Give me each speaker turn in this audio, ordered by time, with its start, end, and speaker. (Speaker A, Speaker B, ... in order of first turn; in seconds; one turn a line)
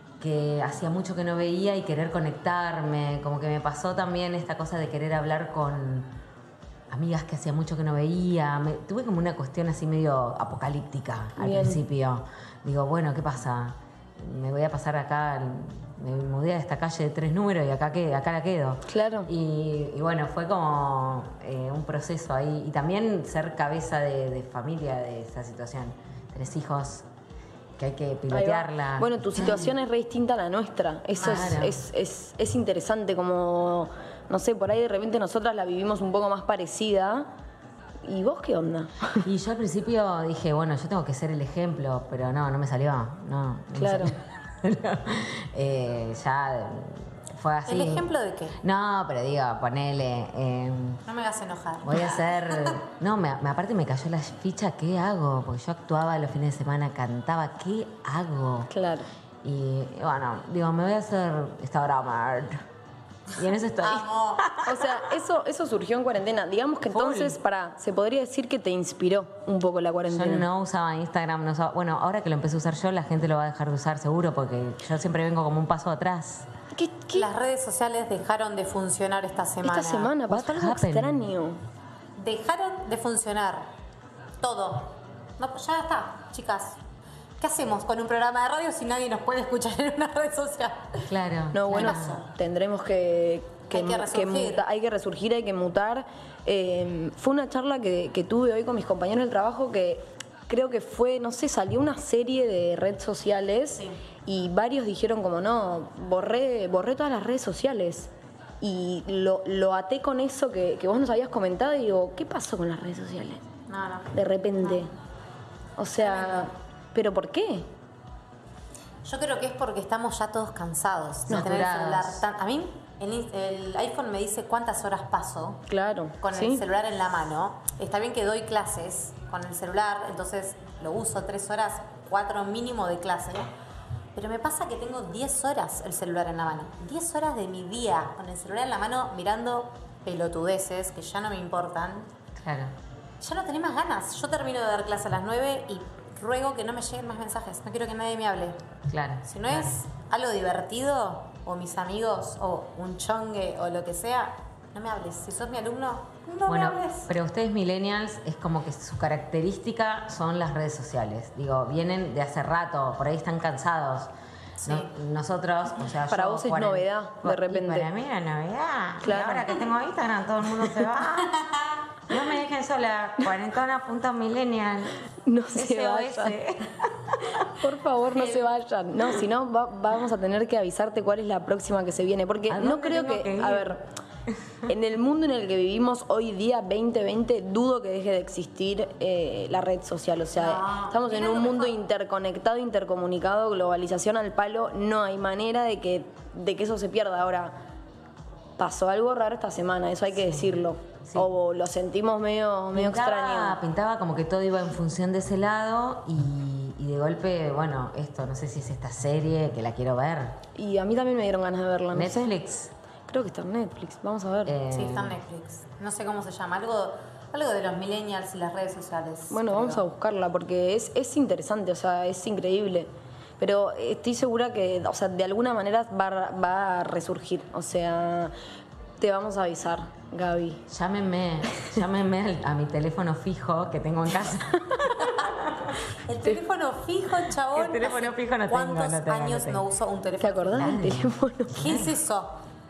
Speaker A: 0.2-6.1
Speaker A: 6.9-27.1
Speaker B: 11.4-11.8
Speaker B: 18.9-19.3
Speaker A: 27.8-29.7
Speaker B: 28.3-37.3
Speaker C: 31.1-31.6
Speaker A: 31.2-31.8
Speaker B: 38.0-39.2
Speaker A: 39.2-48.1
Speaker B: 43.7-44.1
Speaker C: 47.6-48.6
Speaker A: 48.6-51.0
Speaker C: 51.1-52.8
Speaker A: 51.8-58.7
Speaker B: 58.7-59.1
Speaker A: 59.4-62.6
Speaker A: 63.4-65.0
Speaker C: 63.8-64.5
Speaker B: 64.6-70.5
Speaker A: 66.9-67.4
Speaker A: 70.1-76.5
Speaker B: 76.7-77.3
Speaker C: 77.1-80.1
Speaker B: 79.6-81.6
Speaker A: 80.3-81.2
Speaker C: 82.2-83.7
Speaker C: 84.4-86.8
Speaker C: 87.4-91.0
Speaker A: 91.1-92.2
Speaker B: 91.5-108.1
Speaker C: 91.7-92.3
Speaker C: 93.7-94.6
Speaker B: 108.6-113.4
Speaker C: 113.7-114.1
Speaker B: 114.1-114.9
Speaker B: 115.8-117.7
Speaker C: 116.0-116.5
Speaker C: 119.0-125.6
Speaker A: 121.3-122.2
Speaker B: 125.7-126.6
Speaker C: 126.2-133.5
Speaker C: 134.1-142.1
Speaker A: 142.3-142.7
Speaker C: 143.2-148.6
Speaker A: 148.9-149.7
Speaker C: 149.2-157.1
Speaker A: 156.5-164.1
Speaker C: 164.6-164.9
Speaker A: 164.6-171.4
Speaker B: 166.1-167.9
Speaker B: 169.0-169.6
Speaker C: 171.3-171.8
Speaker A: 172.1-175.0
Speaker B: 175.2-176.4
Speaker A: 175.5-178.5
Speaker B: 177.4-183.9
Speaker A: 182.5-183.8
Speaker A: 184.3-184.6
Speaker B: 184.7-197.5
Speaker C: 190.3-191.8
Speaker B: 198.6-203.6
Speaker A: 200.1-201.3
Speaker A: 202.7-210.4
Speaker B: 210.5-212.3
Speaker A: 211.9-212.7
Speaker B: 213.1-214.6
Speaker A: 214.4-215.2
Speaker C: 214.7-219.8
Speaker B: 219.3-228.3
Speaker B: 229.0-230.6
Speaker A: 230.7-235.7
Speaker C: 235.9-240.9
Speaker A: 237.5-239.6
Speaker B: 240.2-241.8
Speaker A: 240.5-241.9
Speaker C: 241.5-242.4